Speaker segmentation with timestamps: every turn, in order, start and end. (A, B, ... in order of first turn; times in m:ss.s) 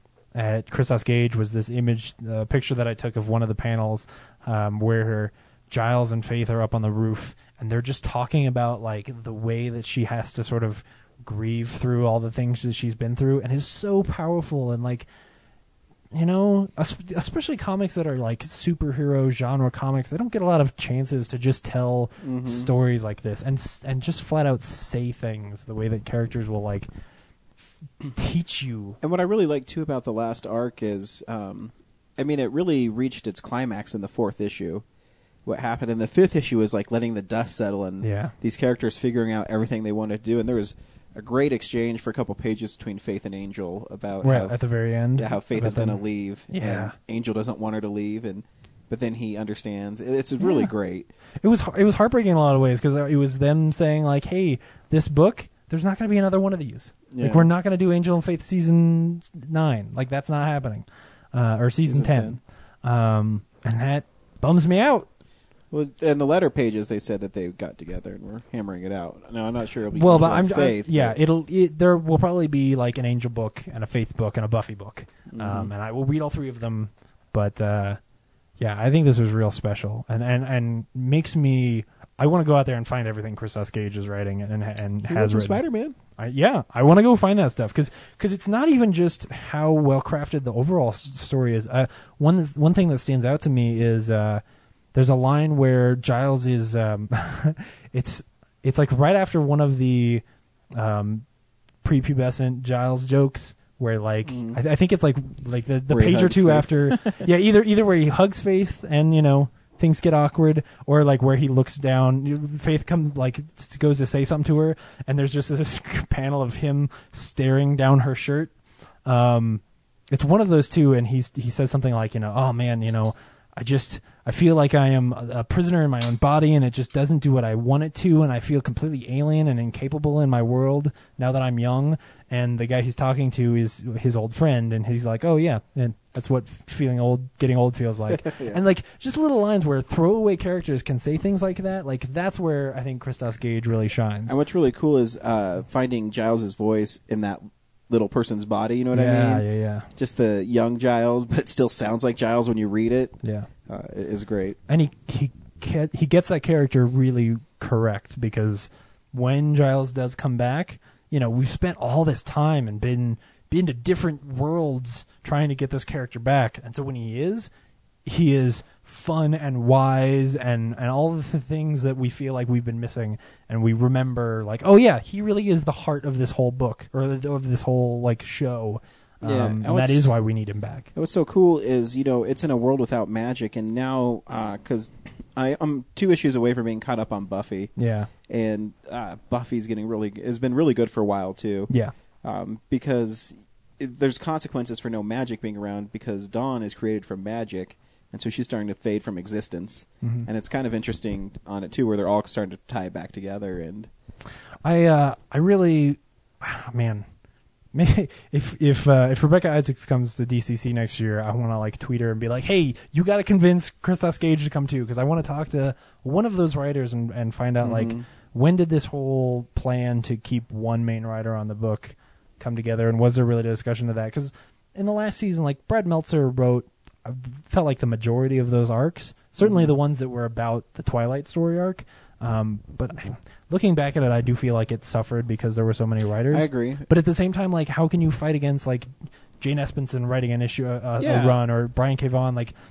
0:00.3-0:15.1 A
0:16.1-0:26.9 A
0:22.2-0:22.7 B
0:28.1-0:29.0 A
0:29.0-0:34.8 B
0:35.4-0:51.1 B
0:38.0-0:38.3 A
0:44.2-0:47.0 A
0:50.4-0:50.7 A
0:51.4-1:05.1 A
0:57.1-0:57.5 B
1:01.8-1:02.4 B
1:05.7-1:11.2 B
1:09.9-1:18.0 A
1:15.3-1:15.7 B
1:18.6-1:25.6 A
1:25.0-1:26.0 B
1:26.2-1:34.4 A
1:34.9-1:41.2 A
1:41.8-1:58.5 A
1:44.2-1:44.6 B
1:45.9-1:47.2 B
1:59.0-2:24.4 A
2:18.1-2:18.6 B
2:24.3-2:29.4 B
2:28.9-2:29.9 A
2:30.0-2:33.2 B
2:33.2-2:33.5 A
2:33.7-2:34.6 B
2:34.7-2:47.5 A
2:48.0-3:00.9 A
2:59.2-3:00.1 B
3:00.9-3:07.7 B
3:07.8-3:08.1 A
3:08.3-3:11.7 B
3:12.2-3:23.9 B
3:20.0-3:20.3 A
3:24.6-3:27.0 A
3:27.7-4:02.5 A
3:37.6-3:38.0 B
3:49.4-3:49.7 B
3:56.3-3:56.8 B
4:01.0-4:01.4 B